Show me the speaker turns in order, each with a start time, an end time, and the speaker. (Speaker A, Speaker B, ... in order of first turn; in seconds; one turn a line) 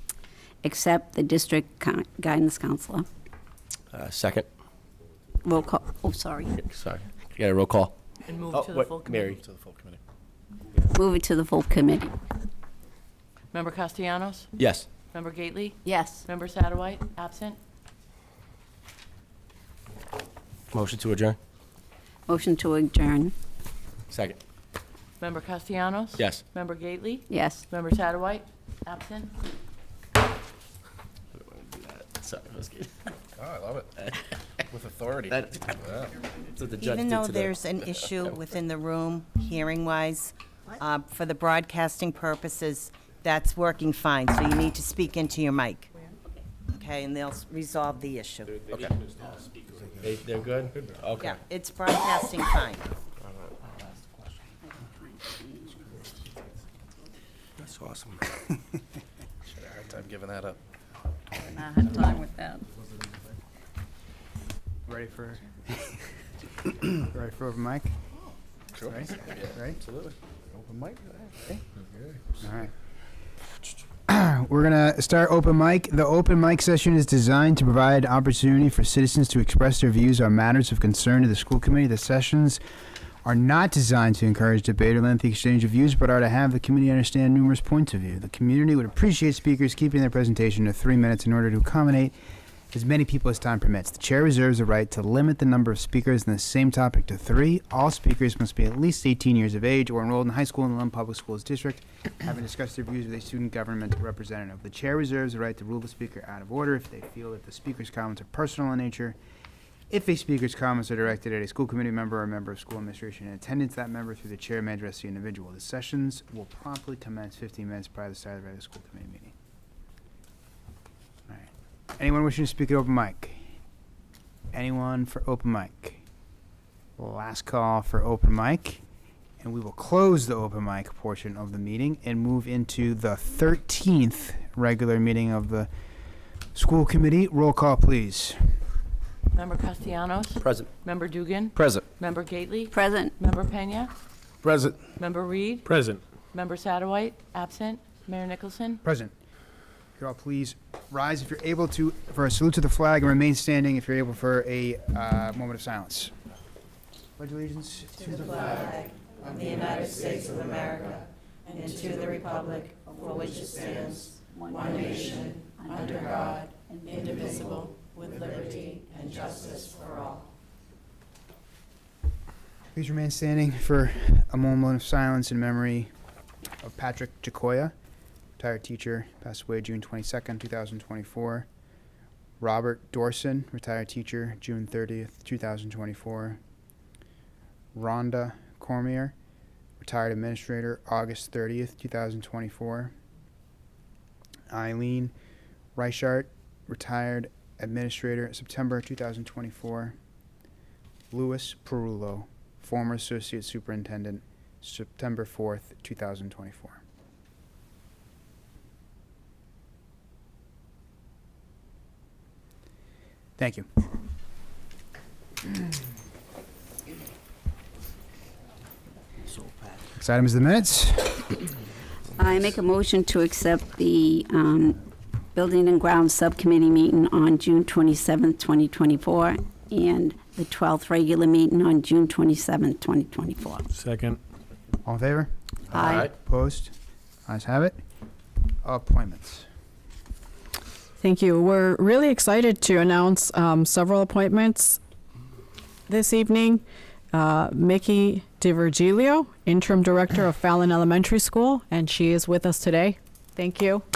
Speaker A: 0.6-3.0
Speaker B: 3.9-4.5
Speaker A: 5.4-6.5
Speaker B: 6.5-7.9
Speaker C: 8.2-9.4
Speaker B: 8.5-9.4
Speaker D: 9.1-10.0
Speaker A: 10.9-12.1
Speaker C: 13.5-14.5
Speaker B: 14.6-14.9
Speaker C: 15.1-17.6
Speaker A: 15.8-16.2
Speaker B: 20.7-21.4
Speaker A: 22.3-23.3
Speaker B: 24.1-24.4
Speaker C: 25.2-29.3
Speaker B: 26.2-26.4
Speaker A: 27.3-27.6
Speaker B: 31.4-32.9
Speaker D: 33.4-34.0
Speaker D: 34.7-36.1
Speaker B: 35.3-35.6
Speaker E: 36.6-45.9
Speaker B: 36.6-38.3
Speaker E: 46.7-48.6
Speaker B: 48.7-48.9
Speaker D: 48.8-49.4
Speaker B: 50.0-51.4
Speaker E: 51.2-52.8
Speaker A: 55.2-55.7
Speaker B: 57.6-58.2
Speaker D: 59.5-60.6
Speaker A: 61.4-62.6
Speaker F: 64.9-66.1
Speaker F: 66.8-67.9
Speaker D: 68.8-69.5
Speaker F: 68.8-69.8
Speaker B: 69.7-70.1
Speaker F: 72.4-72.7
Speaker F: 74.1-82.6
Speaker F: 83.2-92.1
Speaker F: 92.7-109.2
Speaker F: 109.9-119.3
Speaker F: 121.3-123.4
Speaker F: 124.5-126.0
Speaker F: 127.0-128.8
Speaker F: 129.4-135.7
Speaker F: 136.5-138.6
Speaker C: 139.3-143.9
Speaker B: 140.4-140.7
Speaker B: 141.6-141.8
Speaker A: 142.7-143.1
Speaker C: 145.0-145.7
Speaker C: 146.3-148.8
Speaker F: 148.8-149.1
Speaker F: 149.9-156.1
Speaker F: 157.2-158.8
Speaker E: 159.2-164.1
Speaker A: 164.2-167.7
Speaker E: 167.9-170.2
Speaker F: 172.7-175.9
Speaker F: 176.6-177.7
Speaker F: 178.4-181.4
Speaker F: 182.4-186.4
Speaker F: 187.7-189.1
Speaker F: 189.8-192.9
Speaker F: 194.5-195.1
Speaker F: 195.8-199.9
Speaker F: 201.1-206.8
Speaker F: 213.4-213.7
Speaker F: 220.0-221.3
Speaker A: 222.2-224.8
Speaker A: 225.3-233.7
Speaker F: 234.8-236.7
Speaker B: 235.8-236.1
Speaker A: 235.8-236.0
Speaker F: 237.2-237.8
Speaker F: 238.6-239.5
Speaker G: 241.0-244.8
Speaker G: 245.9-253.8